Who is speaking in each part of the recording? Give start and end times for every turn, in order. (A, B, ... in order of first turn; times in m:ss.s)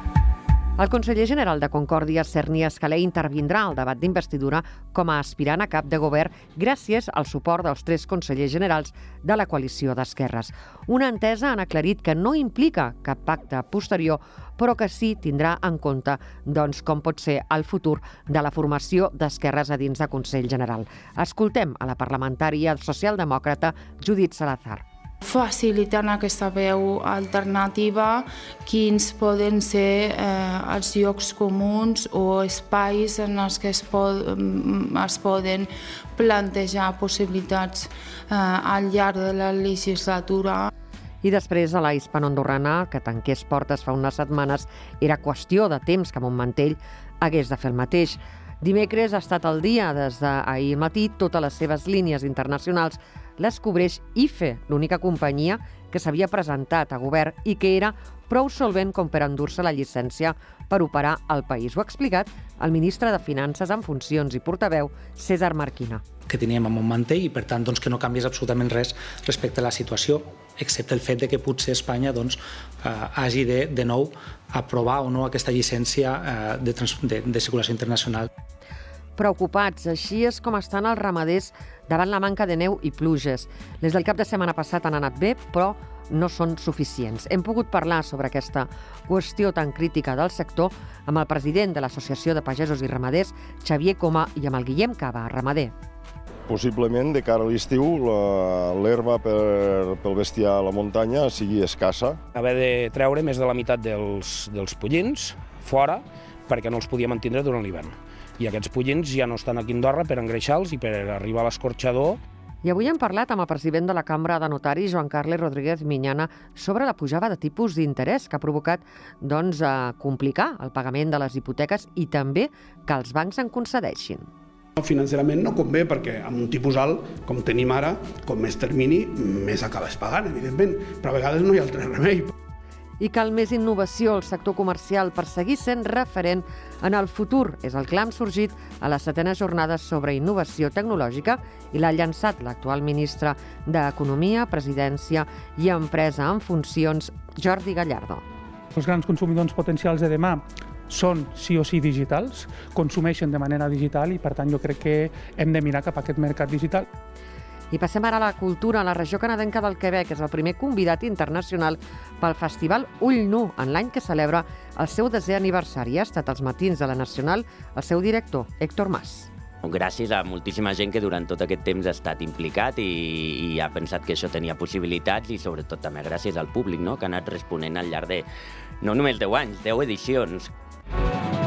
0:00.8-0:24.8 A
0:25.3-0:40.6 B
0:41.2-1:06.0 A
1:06.3-1:18.3 C
1:19.2-1:35.7 A
1:36.5-1:42.2 D
1:42.4-1:52.2 E
1:52.6-2:04.3 A
2:04.8-2:12.3 F
2:13.0-2:28.2 A
2:28.8-2:36.8 G
2:37.7-2:49.3 A
2:49.6-2:58.3 H
2:58.8-3:00.5 H